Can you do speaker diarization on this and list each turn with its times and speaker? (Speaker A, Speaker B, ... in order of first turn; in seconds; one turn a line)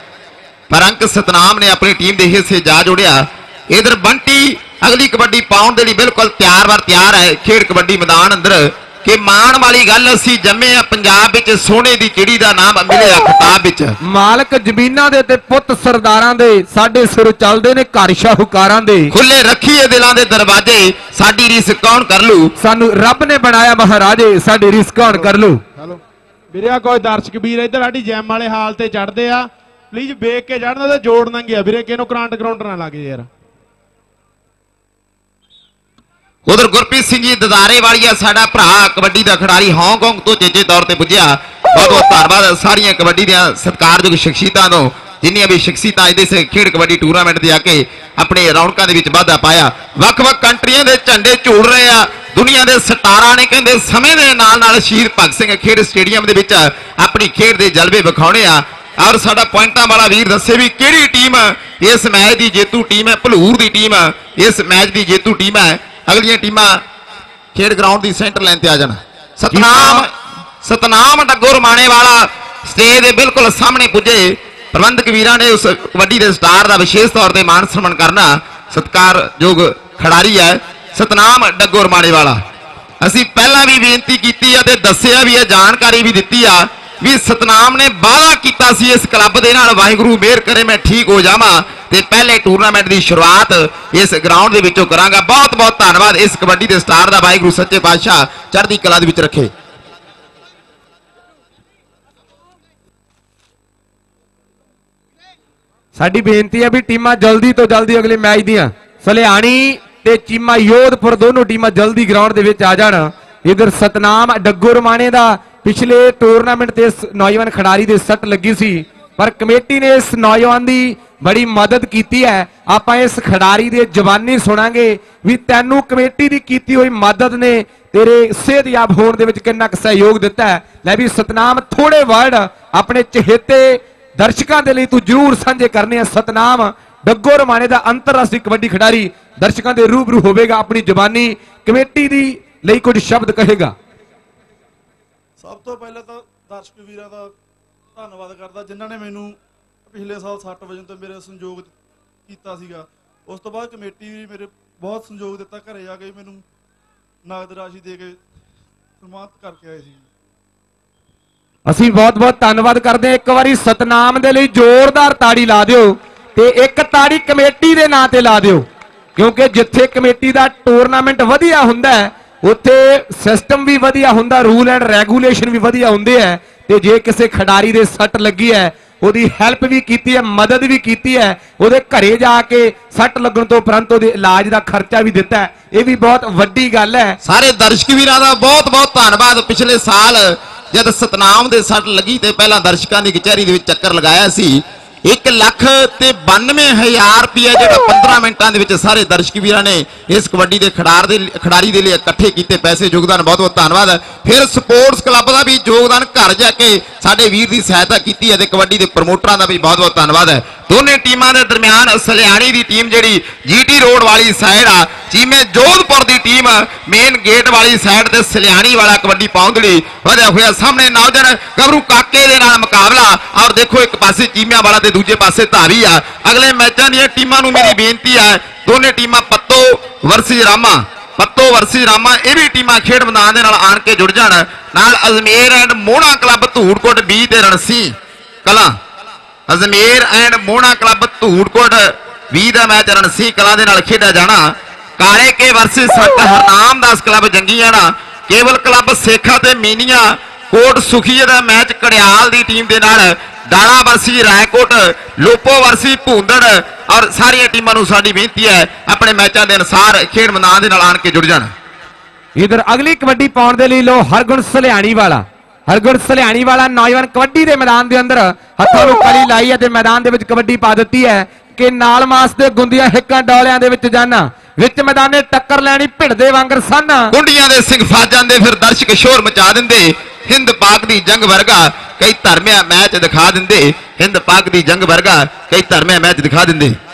Speaker A: 0.7-13.9
Speaker B: 14.0-19.1
Speaker A: 19.1-22.5
Speaker B: 22.6-25.6
Speaker C: 25.1-26.0
Speaker C: 26.5-33.3
Speaker A: 36.5-66.8
Speaker A: 67.5-82.4
Speaker B: 69.5-70.0
Speaker A: 83.0-99.5
Speaker B: 105.9-143.7
Speaker D: 145.4-147.3
Speaker D: 147.9-149.3
Speaker D: 149.9-151.7
Speaker D: 152.3-156.4
Speaker D: 157.2-158.2
Speaker D: 159.0-160.1
Speaker B: 161.7-168.7
Speaker B: 169.2-187.2
Speaker A: 187.2-238.8
Speaker A: 239.5-261.5
Speaker B: 262.4-277.1
Speaker A: 277.1-286.8